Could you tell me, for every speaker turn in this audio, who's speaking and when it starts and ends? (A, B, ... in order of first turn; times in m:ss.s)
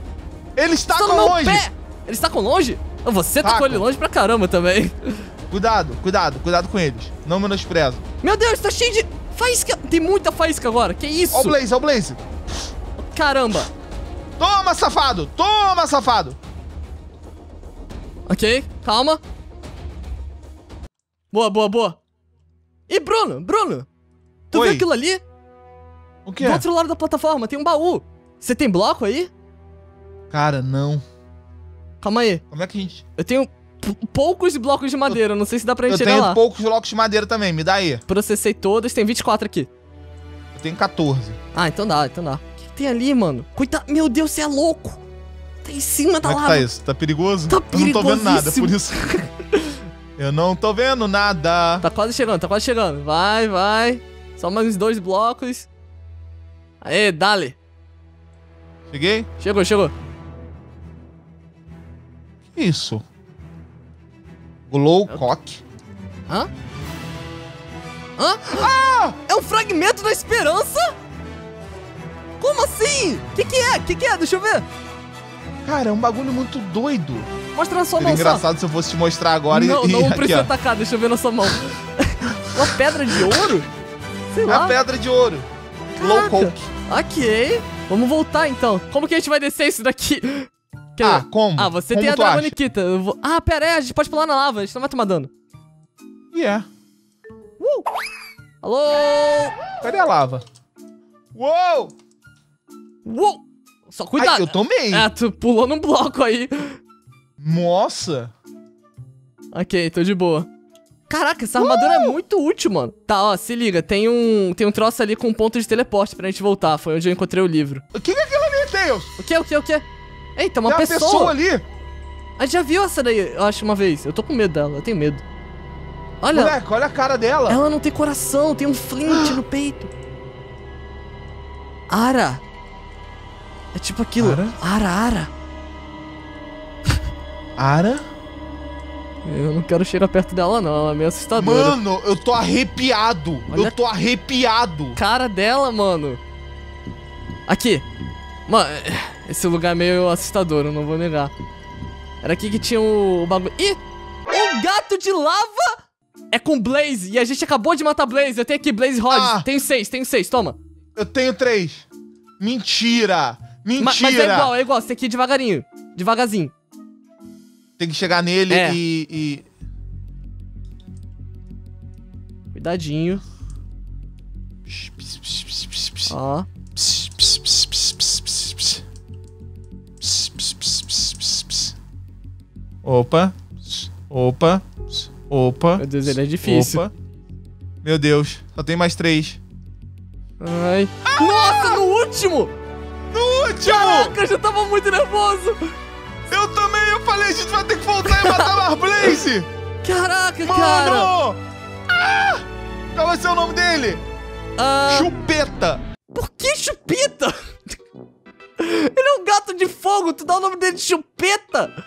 0:00.6-0:01.6 A
0:00.9-0:05.2 B
0:03.4-0:03.8 A
0:05.5-0:08.0 A
0:08.2-0:11.6 B
0:11.3-0:12.2 A
0:13.0-0:13.7 B
0:14.4-0:16.4 A
0:18.3-0:19.2 B
0:21.3-0:22.0 B
0:22.9-0:23.9 B
0:24.5-0:25.2 B
0:24.5-0:24.9 A
0:26.2-0:26.6 A
0:26.4-0:29.3 B
0:30.3-0:31.0 A
0:32.0-0:32.4 B
0:32.5-0:33.0 A
0:33.2-0:36.4 B
0:35.9-0:38.0 A
0:38.1-0:39.7 B
0:40.5-0:41.4 A
0:41.5-0:45.0 B
0:45.6-0:46.7 B
0:46.2-0:49.1 A
0:47.5-0:49.8 B
0:50.2-0:51.8 A
0:51.8-0:55.7 B
0:56.8-0:57.6 B
0:58.9-0:59.3 A
0:59.4-0:59.9 B
1:02.5-1:03.0 A
1:04.7-1:05.6 A
1:08.2-1:08.7 B
1:08.5-1:09.2 A
1:09.2-1:10.9 B
1:12.4-1:14.6 B
1:15.6-1:17.3 A
1:17.5-1:18.4 B
1:18.0-1:20.5 A
1:19.5-1:23.7 B
1:24.3-1:24.8 B
1:24.5-1:26.7 A
1:26.0-1:35.3 B
1:31.0-1:32.5 A
1:36.3-1:36.7 A
1:37.6-1:37.9 B
1:38.6-1:39.6 B
1:39.8-1:40.4 A
1:41.3-1:41.9 A
1:43.0-1:46.8 B
1:44.2-1:45.1 A
1:47.4-1:48.3 A
1:49.5-1:50.5 B
1:51.1-1:57.8 B
1:51.6-1:52.2 A
1:57.9-1:59.1 A
1:59.2-1:59.8 B
2:00.4-2:01.3 B
2:00.6-2:01.6 A
2:02.4-2:05.2 B
2:06.2-2:06.5 B
2:06.3-2:07.6 A
2:07.5-2:09.9 B
2:09.1-2:09.4 A
2:11.9-2:12.4 B
2:13.7-2:15.3 B
2:14.2-2:14.6 A
2:17.6-2:18.0 A
2:19.2-2:21.8 B
2:21.3-2:25.0 A
2:23.5-2:23.7 B
2:24.9-2:26.2 B
2:27.5-2:27.8 B
2:28.5-2:31.3 B
2:32.2-2:35.8 B
2:36.3-2:40.6 B
2:39.1-2:39.5 A
2:41.0-2:41.9 A
2:42.4-2:44.5 A
2:43.8-2:46.5 B
2:47.8-2:49.4 A
2:48.5-2:48.8 B
2:52.5-2:53.2 B
2:54.7-2:56.1 A
2:56.1-2:56.5 B
2:56.8-2:58.8 A
3:00.0-3:01.7 A
3:02.8-3:06.9 A
3:05.8-3:06.8 B
3:07.8-3:09.4 A
3:10.4-3:12.5 B
3:11.0-3:11.8 A
3:13.1-3:14.1 A
3:13.6-3:15.7 B
3:16.3-3:19.5 A
3:18.0-3:18.6 B
3:19.8-3:21.1 B
3:20.4-3:24.0 A
3:24.6-3:25.1 B
3:24.9-3:25.8 A
3:26.1-3:27.5 B
3:28.6-3:31.7 B